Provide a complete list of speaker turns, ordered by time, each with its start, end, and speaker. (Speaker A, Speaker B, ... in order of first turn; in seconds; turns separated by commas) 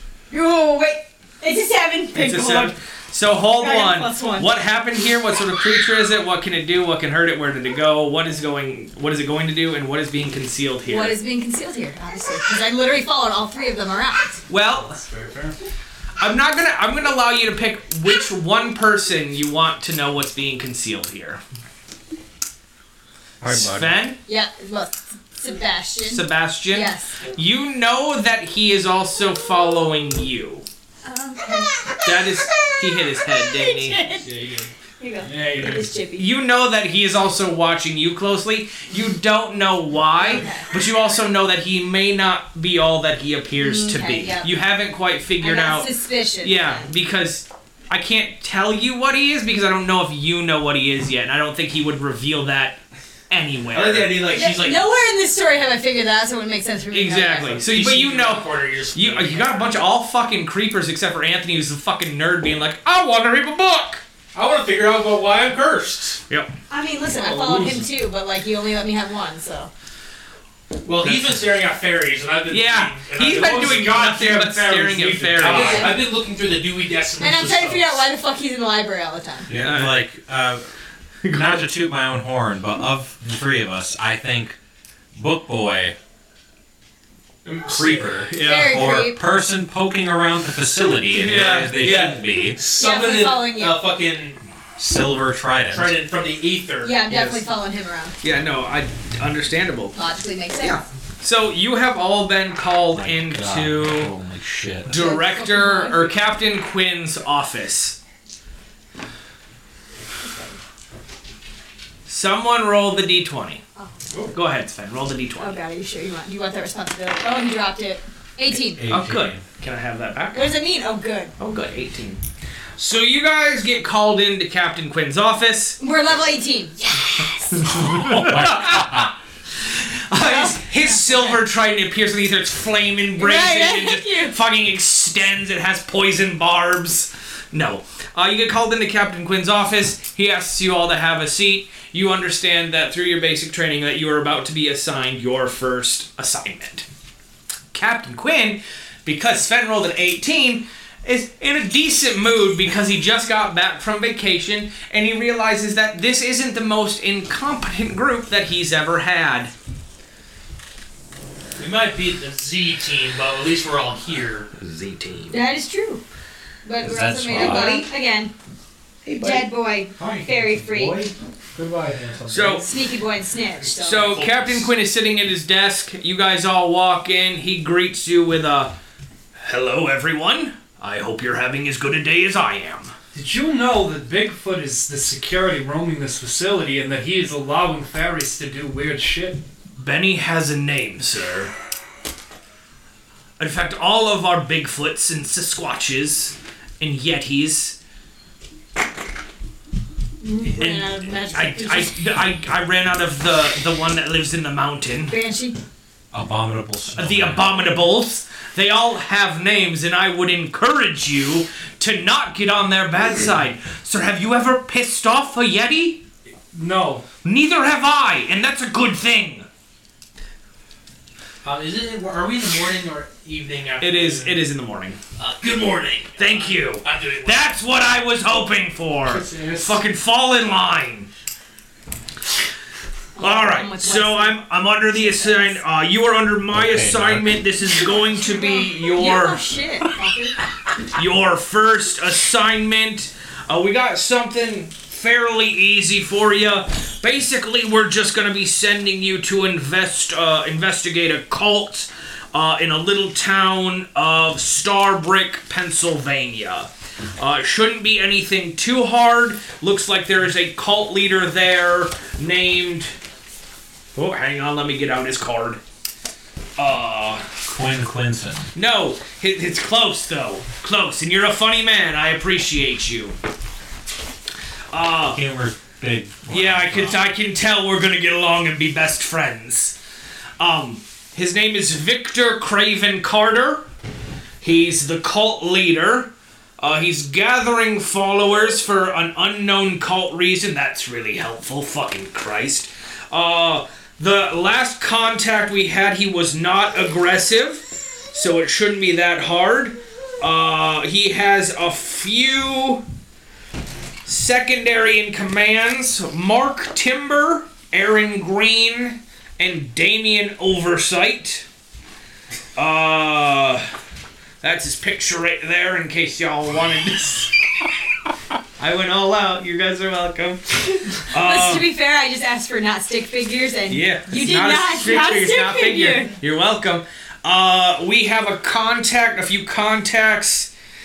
Speaker A: 0.3-2.8, Speaker B: 2.1-11.2, Speaker A: 3.5-4.5, Speaker A: 10.9-14.4, Speaker B: 14.5-15.0, Speaker C: 14.8-15.6, Speaker B: 16.2-21.4, Speaker D: 23.4-23.9, Speaker B: 23.4-24.2, Speaker A: 24.3-27.2, Speaker B: 26.1-30.6, Speaker A: 31.0-34.3, Speaker B: 32.0-34.1, Speaker C: 34.2-34.7, Speaker A: 35.0-36.3, Speaker C: 35.2-35.9, Speaker B: 36.2-45.9, Speaker A: 40.2-40.7, Speaker A: 43.6-44.5, Speaker A: 45.4-46.9, Speaker B: 46.4-54.3, Speaker E: 53.7-54.8, Speaker A: 54.3-57.6, Speaker B: 56.9-64.0, Speaker E: 57.6-59.8, Speaker E: 64.3-66.2, Speaker B: 66.3-66.5, Speaker A: 66.7-69.7, Speaker C: 67.2-67.8, Speaker E: 70.8-78.0, Speaker D: 71.0-71.3, Speaker B: 72.5-76.0, Speaker C: 73.3-75.7, Speaker A: 75.5-76.1, Speaker A: 77.2-79.5, Speaker D: 79.5-80.7, Speaker B: 79.5-80.0, Speaker B: 81.2-81.6, Speaker D: 81.3-84.6, Speaker D: 85.1-86.0, Speaker E: 87.5-88.2, Speaker D: 87.7-92.6, Speaker B: 88.3-89.0, Speaker A: 88.4-89.2, Speaker B: 91.1-92.2, Speaker E: 92.5-94.4, Speaker A: 92.8-93.8, Speaker D: 94.8-96.0, Speaker E: 95.7-97.3, Speaker A: 96.8-98.2, Speaker B: 98.2-100.0, Speaker A: 99.9-100.8, Speaker B: 100.6-104.1, Speaker D: 102.9-104.9, Speaker B: 104.9-108.0, Speaker A: 104.9-106.2, Speaker A: 110.2-110.6, Speaker B: 112.1-113.6, Speaker B: 114.3-115.6, Speaker A: 115.4-118.8, Speaker D: 118.5-119.4, Speaker B: 118.9-120.5, Speaker A: 120.3-121.3, Speaker B: 121.4-122.2, Speaker B: 122.8-125.8, Speaker A: 125.8-128.1, Speaker B: 127.6-129.2, Speaker D: 127.8-129.1, Speaker B: 129.7-146.9, Speaker A: 130.2-131.3, Speaker A: 133.2-134.3, Speaker B: 147.7-159.5, Speaker E: 161.6-164.5, Speaker B: 164.6-165.4, Speaker A: 165.3-166.0, Speaker A: 166.6-168.3, Speaker D: 166.8-167.8, Speaker B: 167.3-167.9, Speaker B: 169.1-169.5, Speaker A: 169.2-171.0, Speaker C: 170.0-172.8, Speaker B: 172.3-172.7, Speaker A: 172.7-174.1, Speaker B: 173.8-178.8, Speaker E: 173.8-174.7, Speaker B: 179.4-182.9, Speaker C: 183.1-189.4, Speaker B: 189.8-191.5, Speaker B: 193.4-197.8, Speaker A: 200.2-201.9, Speaker B: 200.5-205.1, Speaker A: 205.1-205.6, Speaker D: 206.1-207.7, Speaker B: 207.0-216.0, Speaker C: 216.5-217.0, Speaker B: 217.2-219.5, Speaker E: 221.4-224.4, Speaker B: 223.8-225.0, Speaker E: 225.2-227.5, Speaker B: 226.2-231.1, Speaker C: 229.1-229.8, Speaker A: 233.2-235.6, Speaker B: 233.2-239.4, Speaker D: 236.5-237.4, Speaker A: 237.7-240.4, Speaker B: 240.9-262.9, Speaker B: 263.9-265.6, Speaker B: 266.6-267.3, Speaker D: 267.4-268.5, Speaker B: 268.6-273.2, Speaker B: 274.7-275.2, Speaker D: 275.1-277.1, Speaker B: 276.3-279.8, Speaker B: 280.4-283.6, Speaker B: 284.4-302.8, Speaker B: 304.1-311.4, Speaker B: 312.6-313.7, Speaker B: 314.4-317.3, Speaker B: 318.6-321.7, Speaker A: 321.1-326.1, Speaker B: 323.7-330.5